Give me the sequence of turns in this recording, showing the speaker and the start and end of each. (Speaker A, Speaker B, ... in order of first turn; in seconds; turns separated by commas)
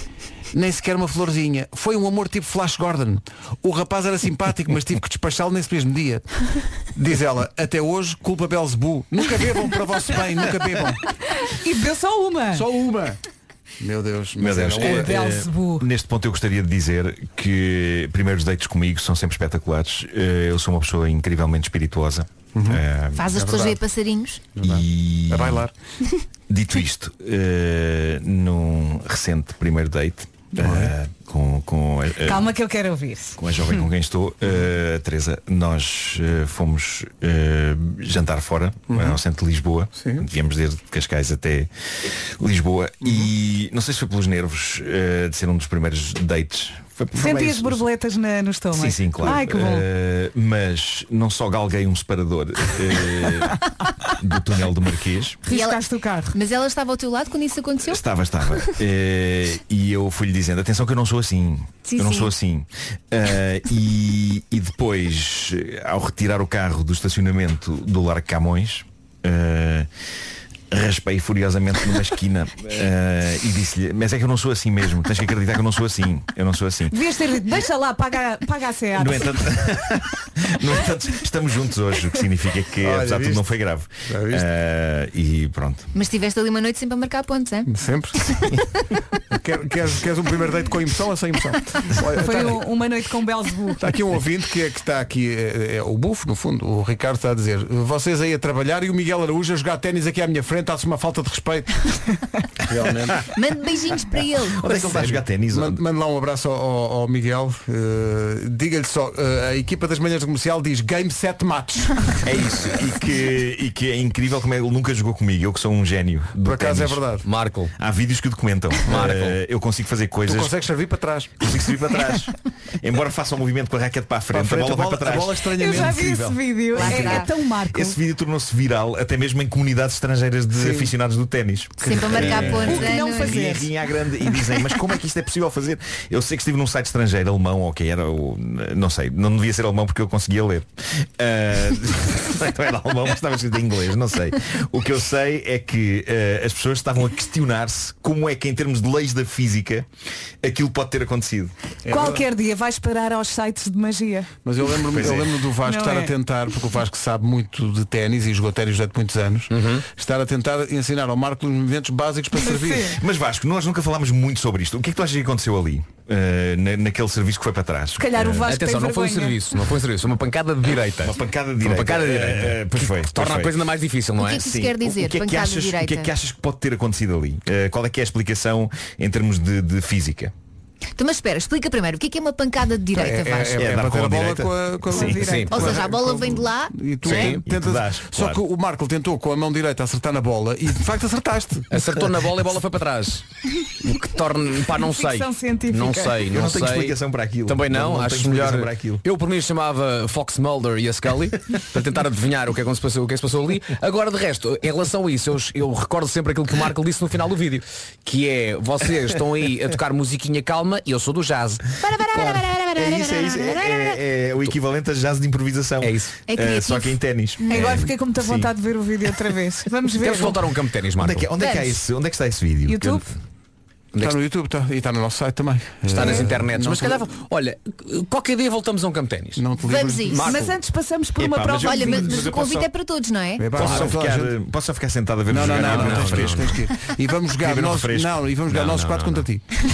Speaker A: 0.5-11.0, Speaker B: 11.4-12.7, Speaker A: 12.5-13.2, Speaker A: 13.8-15.1, Speaker C: 14.4-23.3, Speaker B: 14.7-15.9, Speaker A: 22.5-23.8, Speaker D: 23.1-24.4, Speaker A: 24.6-25.7, Speaker C: 24.6-25.6, Speaker C: 26.5-32.5, Speaker A: 30.6-30.9, Speaker B: 32.2-33.9, Speaker C: 33.4-41.7, Speaker A: 38.9-39.2, Speaker A: 40.0-40.3, Speaker C: 42.3-47.8, Speaker B: 47.1-49.9, Speaker C: 48.7-53.6, Speaker C: 54.2-55.4, Speaker B: 55.5-56.4, Speaker D: 55.5-55.8, Speaker D: 56.3-58.7, Speaker C: 57.8-69.9, Speaker D: 61.9-62.3, Speaker C: 70.7-77.0, Speaker B: 76.9-79.4, Speaker C: 79.0-85.9, Speaker A: 82.8-83.5, Speaker A: 84.1-84.5, Speaker D: 85.9-87.7, Speaker A: 87.7-88.3, Speaker A: 89.3-92.6, Speaker B: 92.2-93.9, Speaker A: 93.8-102.0, Speaker A: 102.6-103.2, Speaker D: 103.3-104.7, Speaker C: 104.6-105.8, Speaker E: 104.7-105.2, Speaker A: 105.5-112.2, Speaker C: 112.2-117.1, Speaker A: 116.4-117.3, Speaker E: 117.2-117.7, Speaker C: 117.8-120.5, Speaker E: 118.9-119.4, Speaker A: 120.3-121.4, Speaker C: 121.4-125.4, Speaker A: 124.3-126.4, Speaker B: 125.6-128.0, Speaker D: 126.7-127.3, Speaker C: 126.8-149.9, Speaker A: 130.6-130.9, Speaker A: 131.8-132.8, Speaker D: 131.8-133.6, Speaker B: 132.6-134.8, Speaker C: 150.4-151.5, Speaker A: 151.8-152.2, Speaker B: 151.9-154.3, Speaker A: 154.4-163.0, Speaker C: 154.9-155.3, Speaker B: 155.7-156.1, Speaker E: 159.5-159.8, Speaker B: 162.5-163.0, Speaker C: 162.9-168.5, Speaker B: 168.0-169.8, Speaker E: 168.4-174.5, Speaker C: 171.0-173.6, Speaker D: 174.2-176.1, Speaker C: 174.3-180.3, Speaker D: 181.0-183.7, Speaker A: 182.9-191.8, Speaker C: 183.6-185.2, Speaker B: 184.9-185.5, Speaker E: 185.2-185.6, Speaker D: 185.5-186.7, Speaker E: 187.1-187.5, Speaker C: 187.1-188.4, Speaker E: 191.7-211.6, Speaker B: 194.7-196.2, Speaker C: 196.3-199.0, Speaker D: 211.8-214.0, Speaker C: 212.2-218.5, Speaker E: 215.8-216.1, Speaker D: 216.3-217.8, Speaker B: 217.5-220.4, Speaker E: 220.0-221.3, Speaker C: 221.0-223.1, Speaker D: 221.4-221.8, Speaker B: 222.7-223.1, Speaker A: 224.0-227.1, Speaker E: 225.9-229.4, Speaker A: 229.4-230.3, Speaker D: 229.6-230.2, Speaker E: 230.0-230.5, Speaker B: 230.2-232.3, Speaker C: 231.2-232.7, Speaker D: 231.6-233.5, Speaker A: 233.4-234.4, Speaker C: 233.5-236.5, Speaker E: 233.6-233.9, Speaker A: 235.3-239.5, Speaker E: 235.4-236.6, Speaker C: 237.4-238.8, Speaker E: 238.5-239.2